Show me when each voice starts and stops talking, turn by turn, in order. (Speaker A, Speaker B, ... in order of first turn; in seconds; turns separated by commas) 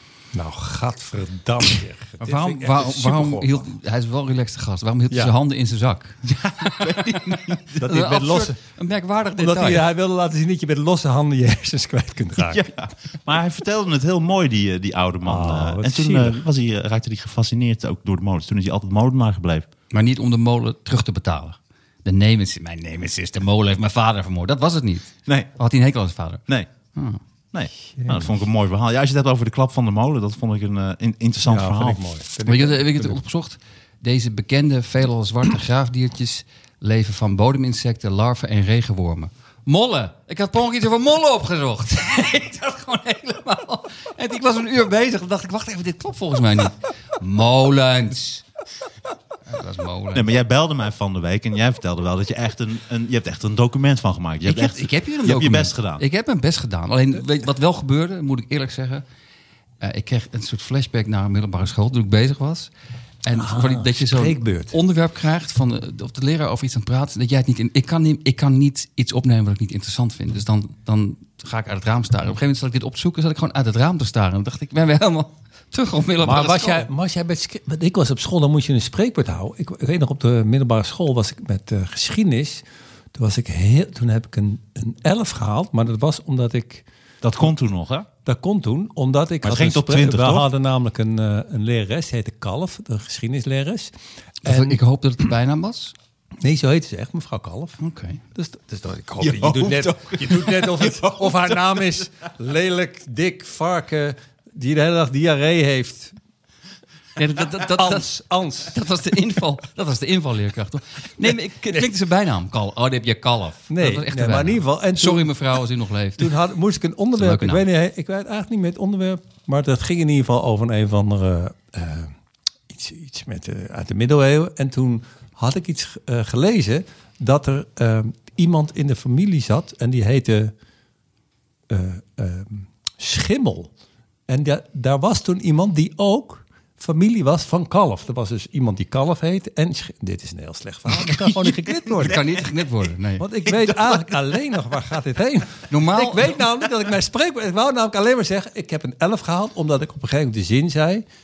Speaker A: 0.3-3.6, Speaker B: 2.2-9.8, Speaker A: 5.1-5.3, Speaker C: 6.3-7.8, Speaker A: 7.8-8.6, Speaker A: 9.4-12.7, Speaker C: 12.5-19.6, Speaker A: 15.2-16.4, Speaker B: 19.9-26.4, Speaker C: 25.2-25.5, Speaker B: 26.9-27.2, Speaker C: 27.5-32.0, Speaker A: 28.0-28.3, Speaker A: 31.4-33.2, Speaker B: 32.5-48.4, Speaker B: 49.5-50.3, Speaker C: 50.1-56.0, Speaker B: 54.4-59.0, Speaker B: 59.8-62.7, Speaker B: 63.2-76.9, Speaker A: 63.3-64.8, Speaker A: 76.2-86.8, Speaker C: 87.2-88.1, Speaker A: 88.2-93.9, Speaker C: 89.4-90.5, Speaker B: 94.4-95.9, Speaker A: 94.4-94.8, Speaker A: 96.4-97.8, Speaker B: 97.8-98.2, Speaker A: 98.3-106.2, Speaker C: 99.2-101.8, Speaker B: 107.2-108.1, Speaker A: 107.7-108.7, Speaker B: 108.7-116.3, Speaker A: 113.7-115.4, Speaker A: 116.2-122.1, Speaker B: 117.2-117.6, Speaker A: 122.7-130.5, Speaker A: 131.7-133.7, Speaker A: 134.3-142.2, Speaker C: 140.9-142.7, Speaker B: 142.0-143.3, Speaker A: 143.2-151.0, Speaker C: 143.4-144.2, Speaker B: 145.7-146.4